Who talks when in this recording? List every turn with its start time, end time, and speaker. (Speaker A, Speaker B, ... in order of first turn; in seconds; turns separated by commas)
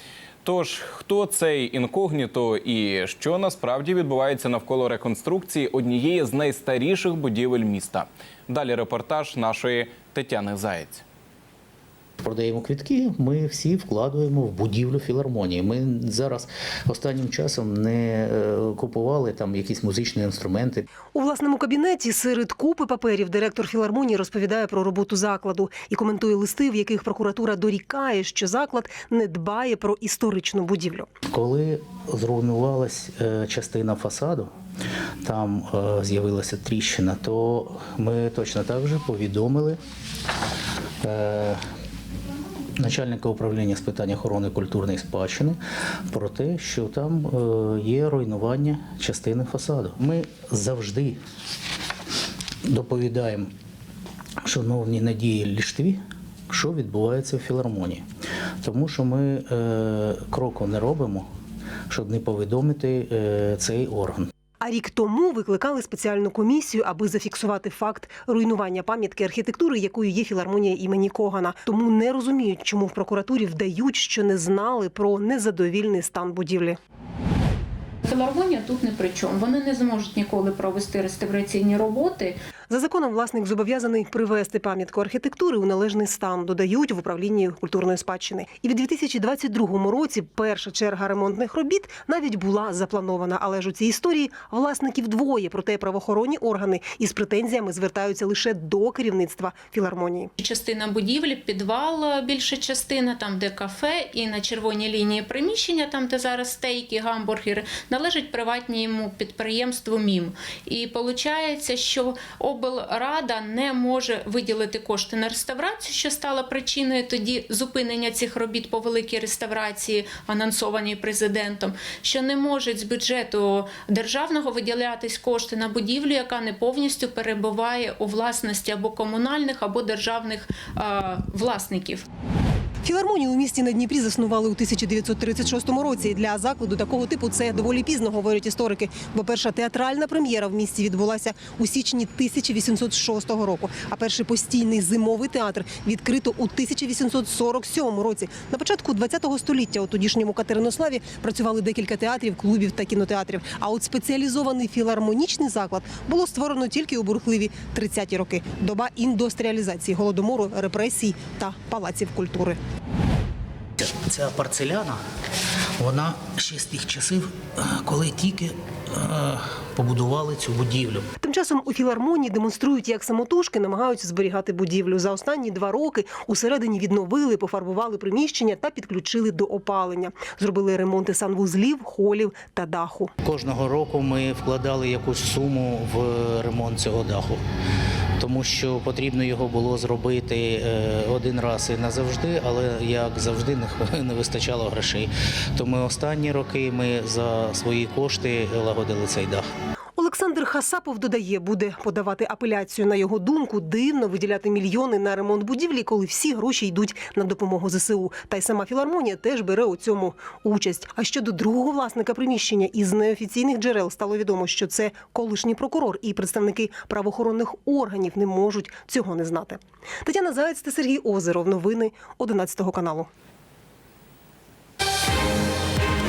Speaker A: 0.4-11.0, Speaker B: 12.2-20.9, Speaker C: 21.1-31.1, Speaker B: 31.3-34.5, Speaker B: 35.2-39.8, Speaker B: 41.0-41.6, Speaker B: 42.8-45.6, Speaker B: 46.1-51.2, Speaker B: 52.6-53.5, Speaker B: 54.4-58.0, Speaker B: 58.6-61.3, Speaker B: 61.9-64.3, Speaker C: 64.6-76.8, Speaker D: 78.0-82.3, Speaker C: 82.7-100.3, Speaker D: 100.4-132.1, Speaker C: 132.8-162.6, Speaker B: 163.8-165.0, Speaker B: 165.8-171.1, Speaker C: 171.2-183.1, Speaker B: 183.2-187.4, Speaker B: 188.2-199.5, Speaker C: 200.0-223.1